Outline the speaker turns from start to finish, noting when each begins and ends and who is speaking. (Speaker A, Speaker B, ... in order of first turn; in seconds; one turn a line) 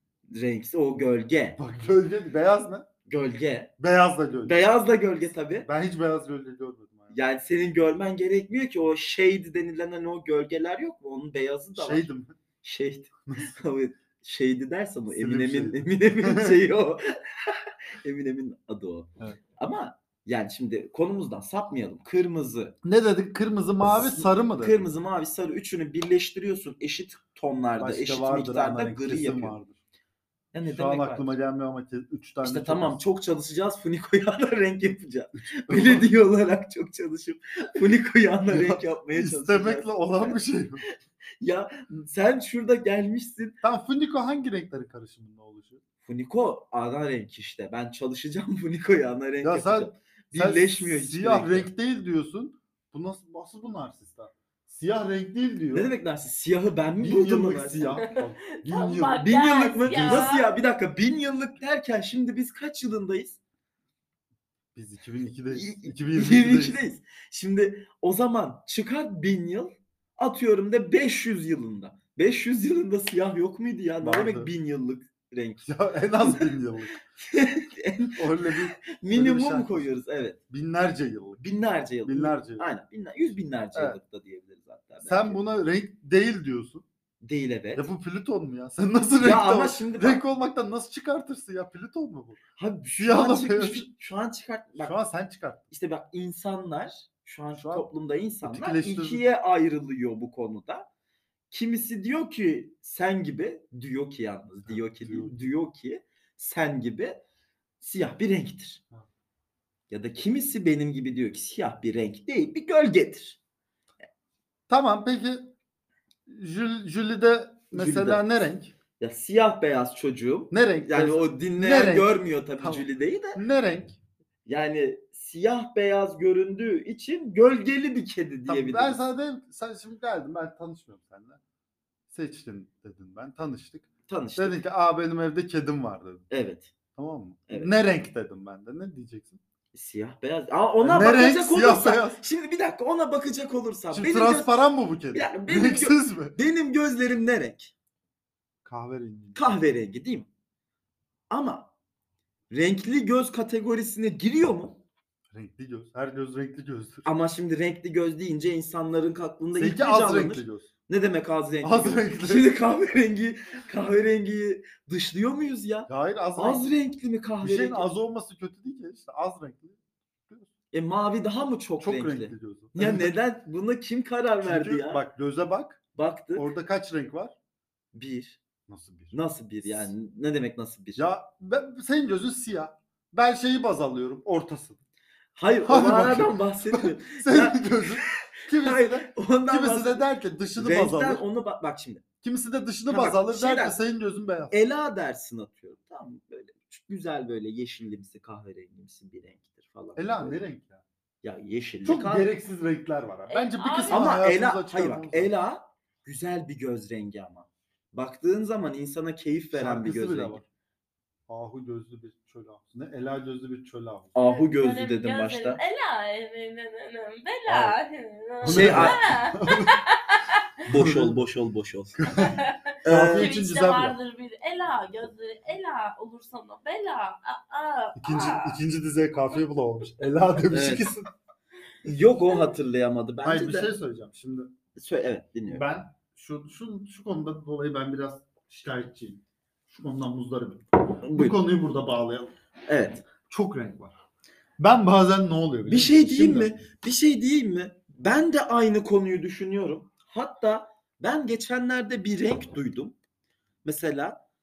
Speaker A: 0.3-1.6
Speaker B: 1.6-2.9
Speaker A: 3.0-3.7
Speaker B: 3.8-4.6
Speaker A: 4.4-5.7
Speaker B: 5.7-7.2
Speaker A: 7.1-12.1
Speaker B: 11.7-12.3
Speaker A: 12.6-22.8
Speaker B: 15.1-16.6
Speaker B: 22.8-24.8
Speaker A: 23.9-29.6
Speaker B: 27.8-29.8
Speaker A: 30.5-31.4
Speaker B: 30.6-33.0
Speaker A: 32.4-40.4
Speaker B: 35.4-36.1
Speaker B: 38.5-40.8
Speaker A: 41.4-43.5
Speaker B: 43.6-45.8
Speaker A: 46.0-51.7
Speaker B: 49.4-55.9
Speaker A: 55.7-58.0
Speaker B: 57.0-59.2
Speaker C: 58.1-60.5
Speaker A: 59.1-63.4
Speaker B: 59.8-60.4
Speaker B: 64.8-66.8
Speaker A: 65.5-75.7
Speaker B: 74.0-74.5
Speaker B: 75.6-77.0
Speaker A: 76.2-76.5
Speaker A: 77.1-80.4
Speaker B: 78.2-80.0
Speaker B: 80.5-81.4
Speaker A: 81.4-85.4
Speaker B: 82.0-82.7
Speaker B: 85.0-86.9
Speaker A: 87.2-87.9
Speaker B: 87.8-92.4
Speaker A: 89.2-90.2
Speaker A: 92.5-94.9
Speaker B: 93.0-93.9
Speaker B: 94.8-95.6
Speaker A: 95.7-100.9
Speaker B: 97.5-97.9
Speaker B: 98.4-99.2
Speaker A: 101.5-107.2
Speaker B: 104.6-105.4
Speaker A: 107.8-108.8
Speaker A: 109.9-113.4
Speaker B: 114.7-115.5
Speaker B: 116.3-118.7
Speaker A: 117.7-118.4
Speaker A: 119.0-123.4
Speaker B: 120.5-124.0
Speaker A: 124.5-129.0
Speaker B: 128.5-131.4
Speaker B: 132.1-136.2
Speaker A: 134.1-134.6
Speaker A: 136.3-136.7
Speaker B: 136.9-139.4
Speaker A: 137.5-137.7
Speaker A: 139.7-144.6
Speaker B: 140.8-142.2
Speaker B: 143.9-146.4
Speaker A: 145.1-147.7
Speaker B: 148.6-149.6
Speaker A: 149.3-150.3
Speaker A: 151.3-151.7
Speaker A: 152.5-154.8
Speaker B: 155.3-157.1
Speaker A: 157.0-167.9
Speaker B: 159.6-160.7
Speaker B: 161.6-162.5
Speaker B: 165.9-166.8
Speaker B: 167.4-170.5
Speaker A: 170.7-175.0
Speaker B: 171.8-173.2
Speaker B: 174.4-175.8
Speaker A: 175.9-176.5
Speaker B: 176.3-177.3
Speaker A: 177.9-178.4
Speaker B: 178.7-179.9
Speaker A: 179.1-181.1
Speaker B: 180.9-184.8
Speaker A: 185.3-192.0
Speaker B: 185.6-191.2
Speaker B: 192.2-194.6
Speaker A: 192.9-193.8
Speaker A: 194.5-200.4
Speaker B: 199.9-200.8
Speaker A: 201.2-202.3
Speaker B: 201.8-205.3
Speaker C: 203.3-204.1
Speaker A: 203.9-210.4
Speaker B: 209.5-210.4
Speaker B: 211.3-214.1
Speaker A: 214.1-215.6
Speaker C: 214.2-220.3
Speaker B: 217.4-217.8
Speaker B: 218.4-219.8
Speaker A: 218.4-219.0
Speaker A: 220.6-222.1
Speaker B: 220.7-221.2
Speaker B: 222.0-224.0
Speaker C: 222.1-228.6
Speaker A: 222.8-223.3
Speaker B: 228.0-231.1
Speaker A: 230.5-230.9
Speaker A: 231.8-233.7
Speaker B: 233.2-234.5
Speaker A: 234.8-235.7
Speaker B: 235.5-242.3
Speaker A: 241.0-241.4
Speaker A: 242.7-243.0
Speaker B: 243.3-244.0
Speaker B: 244.6-246.6
Speaker A: 245.7-252.9
Speaker A: 253.6-254.2